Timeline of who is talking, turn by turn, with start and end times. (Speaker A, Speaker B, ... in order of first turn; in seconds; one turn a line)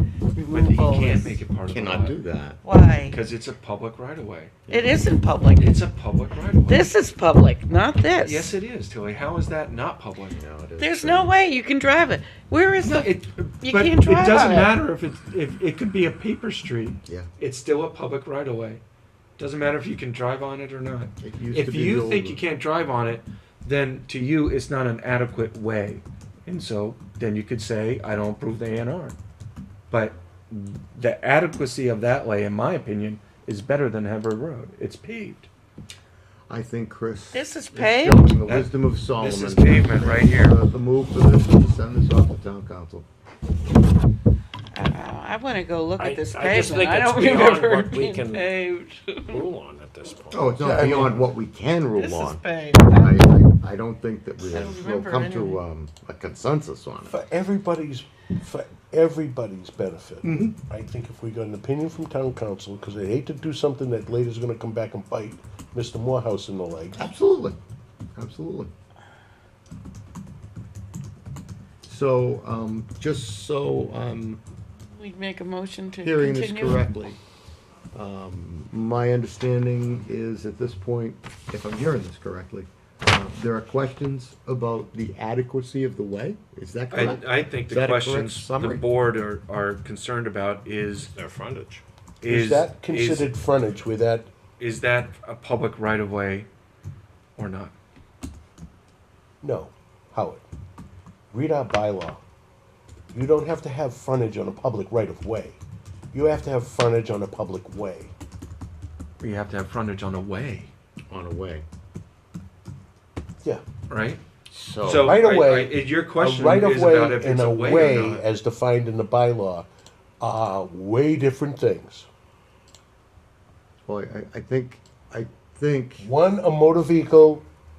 Speaker A: 0.3-1.4
Speaker B: 0.5-2.2
Speaker C: 1.7-2.6
Speaker A: 2.6-3.2
Speaker B: 3.1-4.6
Speaker C: 4.7-5.0
Speaker A: 4.7-5.8
Speaker B: 5.6-6.9
Speaker A: 6.7-8.5
Speaker B: 8.2-10.3
Speaker C: 10.3-11.3
Speaker A: 10.8-14.8
Speaker B: 12.8-18.8
Speaker B: 19.4-29.2
Speaker C: 21.2-22.4
Speaker B: 29.9-35.5
Speaker C: 36.5-43.0
Speaker A: 37.3-38.3
Speaker B: 38.5-40.6
Speaker A: 44.7-49.5
Speaker D: 46.0-48.5
Speaker D: 49.3-50.5
Speaker C: 50.3-57.2
Speaker E: 50.6-51.2
Speaker A: 52.0-53.2
Speaker A: 54.4-55.6
Speaker E: 57.1-67.0
Speaker C: 60.2-60.6
Speaker C: 67.0-67.6
Speaker C: 68.2-68.7
Speaker C: 71.8-74.4
Speaker A: 74.9-76.8
Speaker C: 76.0-77.2
Speaker C: 77.9-88.8
Speaker B: 86.9-91.1
Speaker D: 91.1-91.8
Speaker B: 92.2-93.3
Speaker E: 92.2-94.3
Speaker B: 94.6-96.5
Speaker B: 97.3-97.7
Speaker E: 99.4-100.4
Speaker E: 101.3-102.2
Speaker E: 103.1-105.6
Speaker E: 106.1-108.1
Speaker B: 109.2-110.7
Speaker C: 111.1-111.6
Speaker B: 113.9-114.2
Speaker C: 114.5-115.2
Speaker B: 114.8-118.2
Speaker E: 115.0-119.7
Speaker C: 117.7-118.2
Speaker E: 120.2-122.1
Speaker C: 123.9-126.1
Speaker E: 126.0-127.5